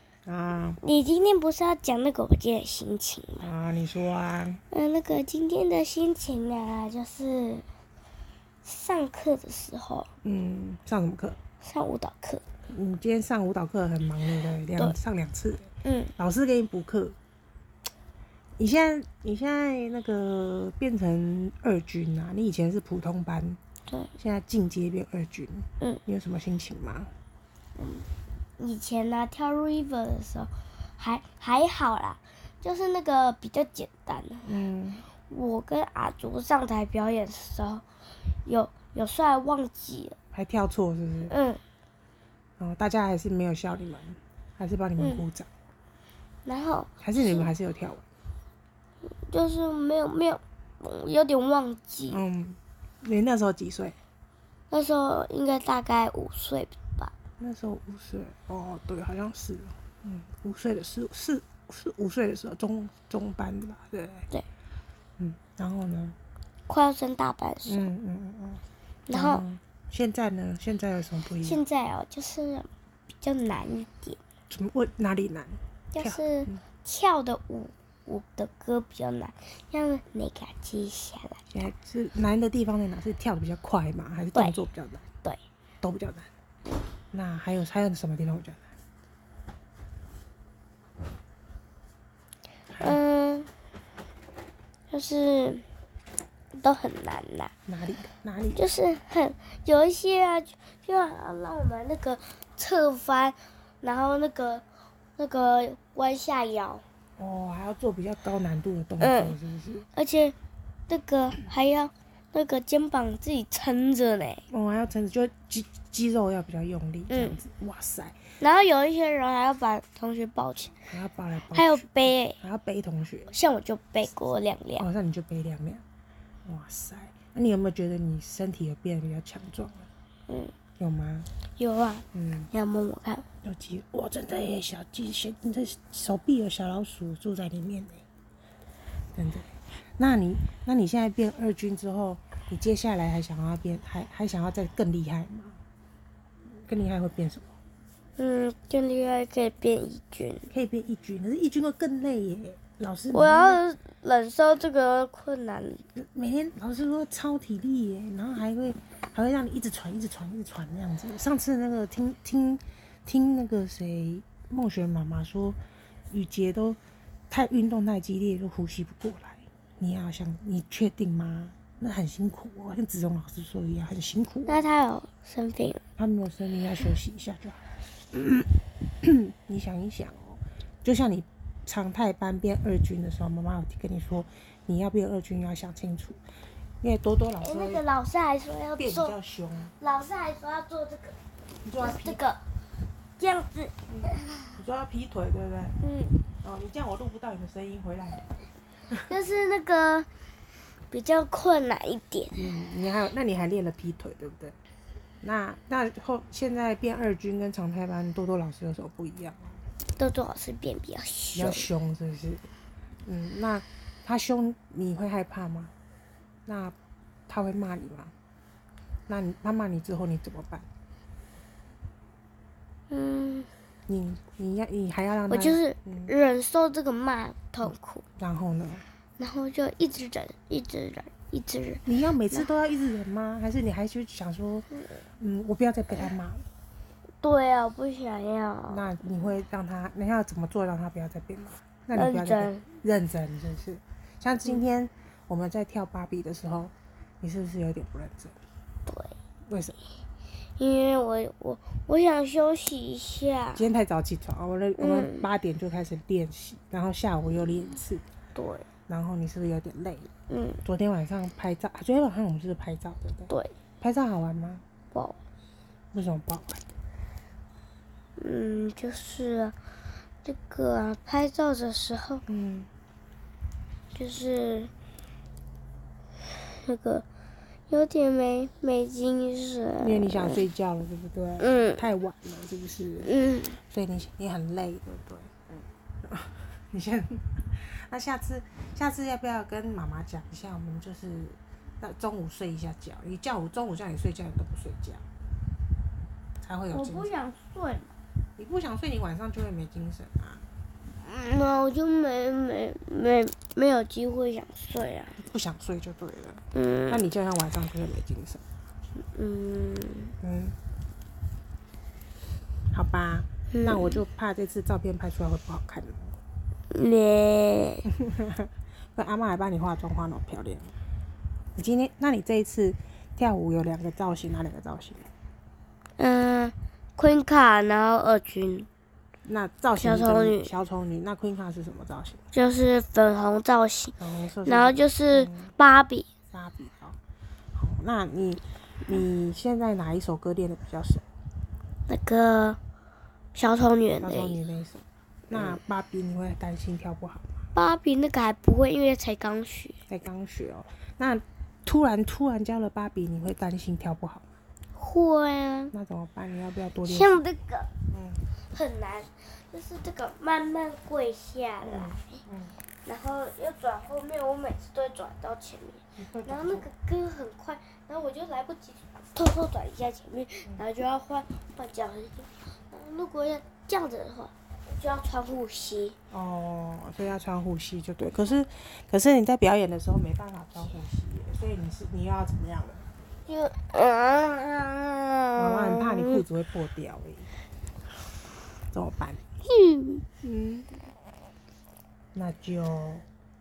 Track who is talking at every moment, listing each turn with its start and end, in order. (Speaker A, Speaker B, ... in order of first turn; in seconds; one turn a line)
Speaker A: 0.3-0.8
Speaker B: 0.8-3.5
Speaker A: 3.4-4.6
Speaker B: 4.7-7.6
Speaker B: 8.6-10.1
Speaker A: 10.2-11.4
Speaker B: 11.6-12.4
Speaker A: 12.7-17.2
Speaker B: 15.8-16.1
Speaker A: 18.6-23.6
Speaker A: 24.2-27.1
Speaker B: 27.8-28.0
Speaker B: 28.6-34.5
Speaker A: 34.5-35.1
Speaker B: 35.3-37.8
Speaker B: 38.5-40.2
Speaker A: 40.3-41.3
Speaker B: 41.3-41.6
Speaker A: 42.6-45.5
Speaker B: 45.0-45.2
Speaker B: 46.5-47.5
Speaker A: 47.0-48.0
Speaker B: 49.3-52.2
Speaker A: 52.1-54.0
Speaker B: 54.7-57.1
Speaker A: 57.4-64.3
Speaker A: 65.2-66.2
Speaker B: 66.7-67.9
Speaker A: 67.7-71.6
Speaker B: 69.1-69.4
Speaker B: 71.4-72.7
Speaker B: 73.2-74.2
Speaker A: 74.5-76.6
Speaker B: 75.9-81.5
Speaker A: 81.5-85.1
Speaker A: 85.8-86.3
Speaker A: 87.1-88.7
Speaker A: 92.7-93.0
Speaker B: 92.8-93.5
Speaker B: 94.9-95.6
Speaker B: 96.5-97.5
Speaker A: 97.7-98.7
Speaker B: 98.5-104.6
Speaker B: 105.2-106.8
Speaker A: 107.2-109.9
Speaker B: 109.0-109.3
Speaker B: 109.9-110.3
Speaker B: 110.9-114.4
Speaker A: 114.5-118.2
Speaker B: 117.1-117.4
Speaker B: 118.4-120.8
Speaker A: 120.9-123.3
Speaker B: 121.5-122.4
Speaker B: 123.3-124.9
Speaker A: 124.8-125.8
Speaker A: 126.4-129.9
Speaker B: 130.3-130.5
Speaker A: 130.8-131.3
Speaker B: 131.6-133.2
Speaker A: 132.1-132.5
Speaker A: 133.4-138.0
Speaker A: 139.2-145.6
Speaker A: 146.6-147.6
Speaker B: 148.2-150.5
Speaker A: 150.5-153.6
Speaker B: 153.1-155.8
Speaker A: 155.9-165.6
Speaker A: 166.1-166.8
Speaker A: 167.3-174.7
Speaker B: 174.5-175.8
Speaker A: 176.0-178.5
Speaker A: 179.0-186.2
Speaker A: 186.8-187.8
Speaker B: 187.4-189.2
Speaker A: 188.8-189.7
Speaker B: 189.8-191.2
Speaker A: 191.6-192.2
Speaker B: 191.8-192.4
Speaker B: 193.2-193.7
Speaker A: 193.9-195.8
Speaker B: 195.8-196.2
Speaker A: 196.4-198.4
Speaker B: 199.1-200.1
Speaker B: 200.9-202.4
Speaker A: 202.3-204.6
Speaker A: 205.2-209.6
Speaker B: 210.0-211.7
Speaker A: 211.3-212.5
Speaker A: 213.0-215.7
Speaker A: 216.5-216.8
Speaker A: 217.3-218.1
Speaker A: 219.1-220.7
Speaker B: 222.9-223.5
Speaker A: 223.9-226.1
Speaker B: 225.3-228.0
Speaker A: 228.2-228.8
Speaker B: 229.2-231.8
Speaker A: 231.9-234.7
Speaker A: 235.2-236.5
Speaker B: 237.2-238.9
Speaker A: 238.7-248.4
Speaker B: 241.9-242.6
Speaker B: 248.9-249.2
Speaker A: 249.5-249.8
Speaker B: 250.6-253.6
Speaker A: 253.6-258.0
Speaker B: 254.8-255.2
Speaker B: 258.4-258.7
Speaker A: 258.9-260.1
Speaker B: 260.3-260.6
Speaker A: 260.6-264.6
Speaker B: 263.3-263.5
Speaker B: 264.9-265.2
Speaker A: 265.9-266.7
Speaker B: 268.2-269.6
Speaker B: 270.2-272.2
Speaker A: 272.3-272.7
Speaker B: 273.9-274.7
Speaker B: 276.3-277.1
Speaker B: 277.7-280.4
Speaker A: 279.8-295.0
Speaker B: 281.4-281.8
Speaker B: 283.1-283.6
Speaker A: 296.4-297.1
Speaker B: 296.7-297.9
Speaker A: 298.4-300.4
Speaker B: 301.0-305.2
Speaker A: 305.2-308.4
Speaker B: 306.5-307.1
Speaker B: 309.1-310.1
Speaker A: 310.2-310.6
Speaker A: 312.7-316.2
Speaker B: 313.5-314.0
Speaker B: 316.7-317.9
Speaker A: 317.9-320.8
Speaker A: 321.6-325.1
Speaker B: 326.0-328.7
Speaker A: 329.2-332.2
Speaker B: 329.8-330.5
Speaker B: 332.3-336.1
Speaker A: 334.0-335.5
Speaker A: 336.3-337.0
Speaker A: 337.6-341.0
Speaker B: 341.9-342.6
Speaker B: 343.4-344.4
Speaker A: 344.0-347.4
Speaker B: 347.5-349.8
Speaker A: 349.9-354.3
Speaker B: 354.8-355.7
Speaker A: 355.7-357.2
Speaker B: 356.9-357.7
Speaker A: 357.9-358.2
Speaker B: 358.5-362.2
Speaker A: 361.6-362.6
Speaker B: 362.8-375.9
Speaker A: 366.0-366.7
Speaker A: 376.1-382.9
Speaker B: 383.3-386.2
Speaker A: 385.4-387.3
Speaker A: 388.7-389.2
Speaker B: 389.4-390.0
Speaker A: 390.2-390.7
Speaker A: 392.1-393.1